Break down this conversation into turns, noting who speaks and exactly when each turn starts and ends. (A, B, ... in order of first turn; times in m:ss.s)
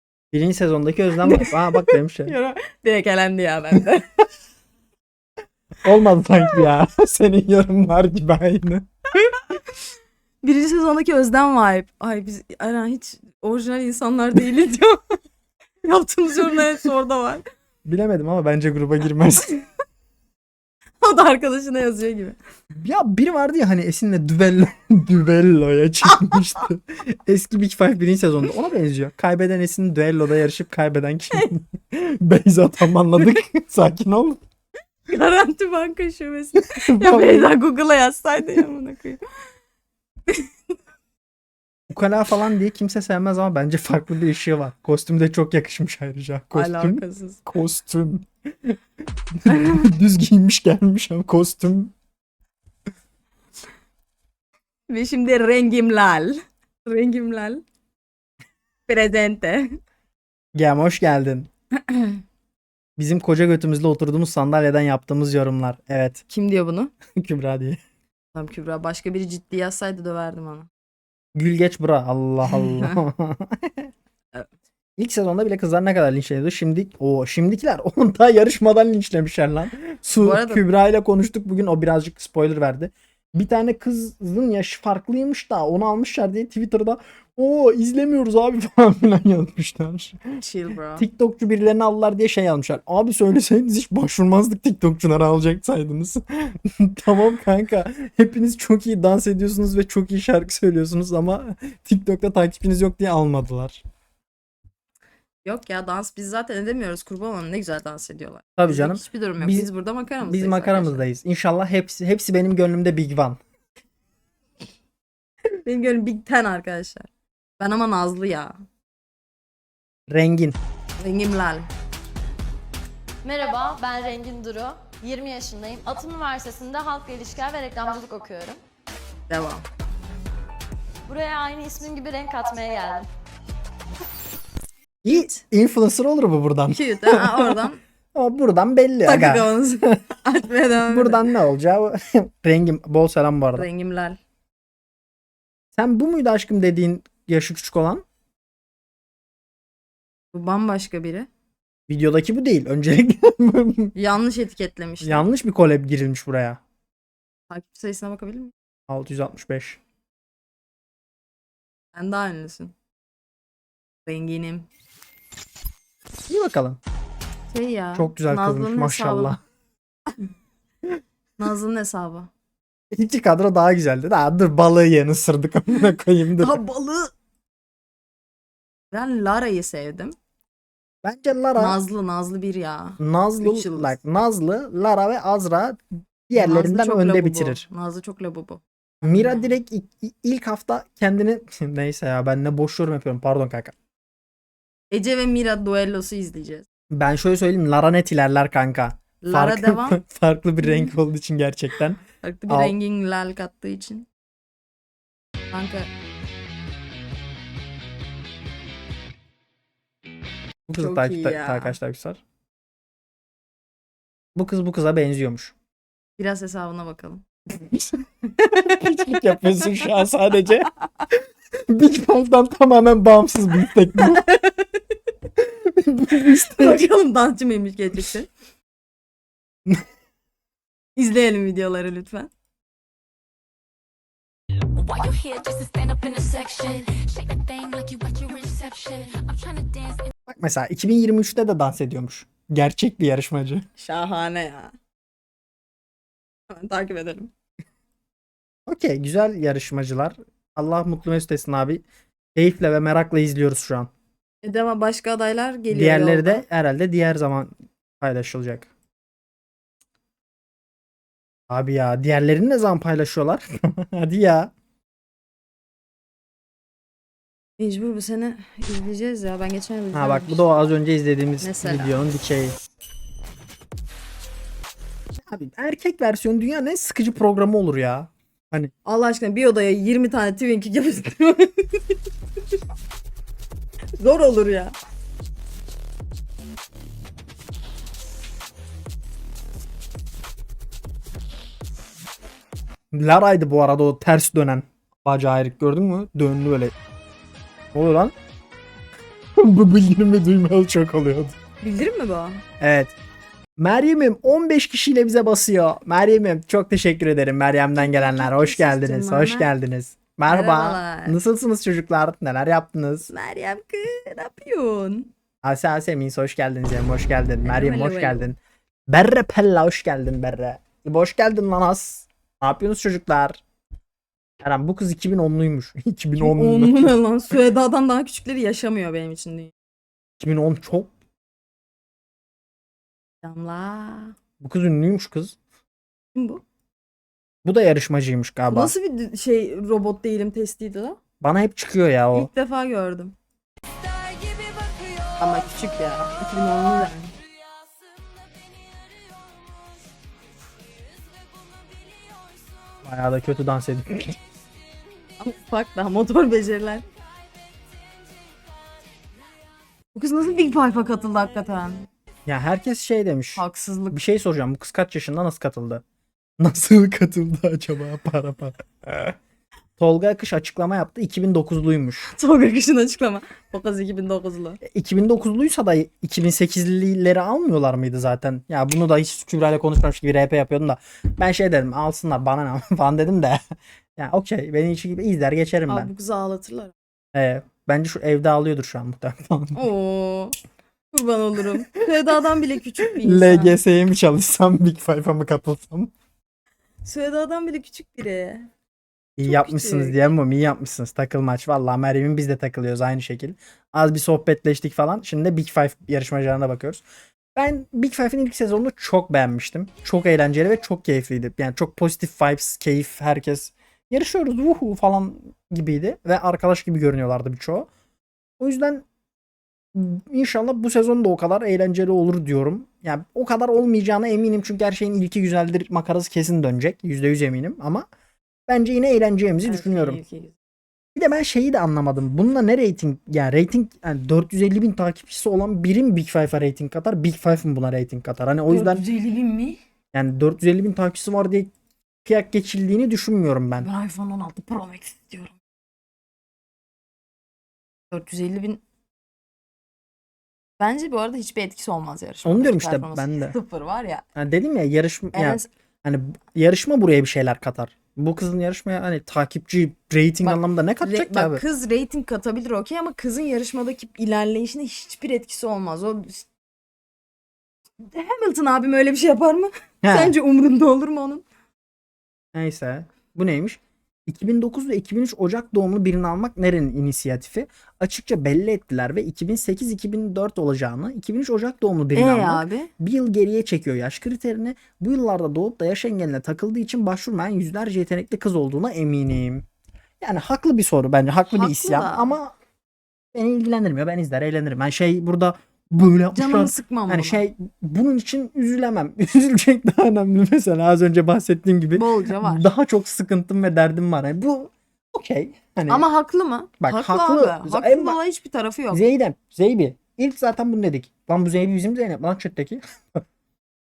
0:00.3-0:02.4 A
0:01.2-0:04.1 B
0:05.8-0:08.9 A
0:09.2-0:09.6 B
0:10.4-0:15.0 B
0:15.8-0:17.4 B
0:17.9-0:19.6 A
0:21.0-0:22.4 B
0:22.8-0:34.4 A
0:26.1-0:26.4 B
0:35.1-0:39.2 B
0:36.7-0:37.5 A
0:41.9-0:48.8 A
0:46.5-0:47.4 B
0:49.3-0:51.9 A
0:54.9-0:57.6 B
0:58.9-0:59.7 B
1:00.6-1:01.5 A
1:01.9-1:02.2 B
1:03.0-1:06.2 A
1:06.3-1:06.9 B
1:07.2-1:07.8 A
1:08.3-1:10.7 B
1:11.4-1:13.9 A
1:12.5-1:13.0 B
1:15.0-1:30.2 A
1:20.2-1:20.6 B
1:30.4-1:31.1 B
1:31.0-1:43.8 A
1:45.4-1:51.1 B
1:48.6-1:49.7 A
1:50.2-1:53.4 A
1:55.6-1:57.1 B
1:57.6-1:58.6 B
2:00.1-2:00.6 A
2:01.0-2:01.7 B
2:03.3-2:04.8 C
2:04.8-2:07.4 B
2:06.5-2:08.6 C
2:09.3-2:09.6 B
2:11.1-2:12.9 B
2:11.8-2:13.0 C
2:15.0-2:17.6 A
2:16.7-2:17.8 B
2:18.1-2:19.5 A
2:19.0-2:21.2 B
2:20.9-2:23.7 A
2:23.6-2:24.2 B
2:25.8-2:28.0 A
2:30.3-2:31.3 B
2:31.9-2:34.0 A
2:34.0-2:35.3 B
2:35.0-2:36.6 A
2:37.5-2:38.5 B
2:38.9-2:39.8 A
2:41.9-2:42.7 B
2:44.0-2:44.7 B
2:46.3-2:46.8 A
2:47.5-2:49.4 B
2:48.0-2:49.4 A
2:51.4-2:52.3 B
2:52.9-2:56.6 A
2:56.4-2:57.1 B
2:58.9-3:00.1 B
3:01.0-3:01.8 A
3:01.6-3:04.0 B
3:03.0-3:07.6 A
3:06.4-3:09.6 B
3:09.0-3:13.7 A
3:14.9-3:16.7 B
3:16.9-3:22.8 A
3:19.2-3:20.0 B
3:20.6-3:20.9 B
3:22.2-3:24.1 B
3:25.5-3:25.9 B
3:30.7-3:32.2 A
3:30.8-3:31.8 B
3:34.4-3:35.5 A
3:36.2-3:37.2 B
3:37.6-3:38.0 A
3:38.4-3:39.9 B
3:38.6-3:40.7 A
3:41.7-3:44.3 A
3:44.0-3:44.8 B
3:45.4-3:46.8 A
3:46.2-3:48.3 B
3:51.0-3:52.3 B
3:54.9-3:56.1 D
3:55.9-3:57.0 B
3:56.9-4:00.0 D
4:00.3-4:03.6 A
4:03.8-4:04.7 B
4:06.5-4:07.3 B
4:08.7-4:13.9 A
4:14.4-4:16.4 B
4:15.7-4:18.7 A
4:21.5-4:24.5 A
4:27.6-4:30.7 B
4:29.9-4:32.6 A
4:31.4-4:32.0 B
4:35.2-4:38.7 A
4:38.8-4:42.0 B
4:44.0-4:44.8 B
4:52.9-4:56.7 A
4:57.7-4:58.1 A
4:59.4-5:01.4 A
5:01.6-5:02.4 B
5:02.6-5:02.9 A
5:03.6-5:13.1 A
5:07.8-5:09.5 B
5:10.3-5:11.2 B
5:13.1-5:15.1 B
5:15.4-5:23.4 A
5:17.4-5:18.3 B
5:24.4-5:27.0 A
5:26.2-5:29.5 B
5:30.2-5:30.9 A
5:33.2-5:34.2 B
5:34.4-5:35.4 A
5:36.2-5:36.4 B
5:37.4-5:38.7 A
5:38.5-5:41.0 B
5:41.2-5:42.3 A
5:42.1-5:43.2 B
5:44.0-5:47.2 B
5:52.8-5:54.2 A
5:55.2-5:56.8 B
5:59.9-6:01.9 B
6:02.3-6:05.8 A
6:03.4-6:04.0 B
6:06.4-6:09.2 A
6:09.8-6:12.1 A
6:12.1-6:14.6 B
6:14.6-6:23.4 A
6:24.0-6:25.9 A
6:25.7-6:26.7 B
6:27.1-6:29.6 A
6:29.5-6:30.4 B
6:30.9-6:33.6 B
6:33.0-6:35.9 A
6:36.8-6:38.5 B
6:39.2-6:46.8 A
6:39.3-6:40.1 B
6:47.4-6:57.7 A
6:58.4-6:58.8 A
6:59.7-7:07.9 A
7:08.5-7:10.0 A
7:09.4-7:10.4 B
7:11.0-7:18.8 A
7:18.5-7:19.6 B
7:19.9-7:21.5 A
7:22.0-7:23.7 A
7:23.6-7:25.4 B
7:27.9-7:28.6 B
7:30.6-7:34.0 B
7:32.2-7:33.4 A
7:34.2-7:41.4 A
7:35.1-7:35.5 B
7:40.2-7:46.3 B
7:47.8-7:51.2 B
7:49.8-7:50.2 A
7:52.3-8:09.4 A
8:02.0-8:02.7 B
8:10.0-8:12.3 A
8:11.3-8:12.2 B
8:13.1-8:25.8 A
8:16.1-8:17.3 B
8:21.7-8:22.5 B
8:25.7-8:28.8 B
8:26.6-8:28.0 A
8:28.7-8:33.0 A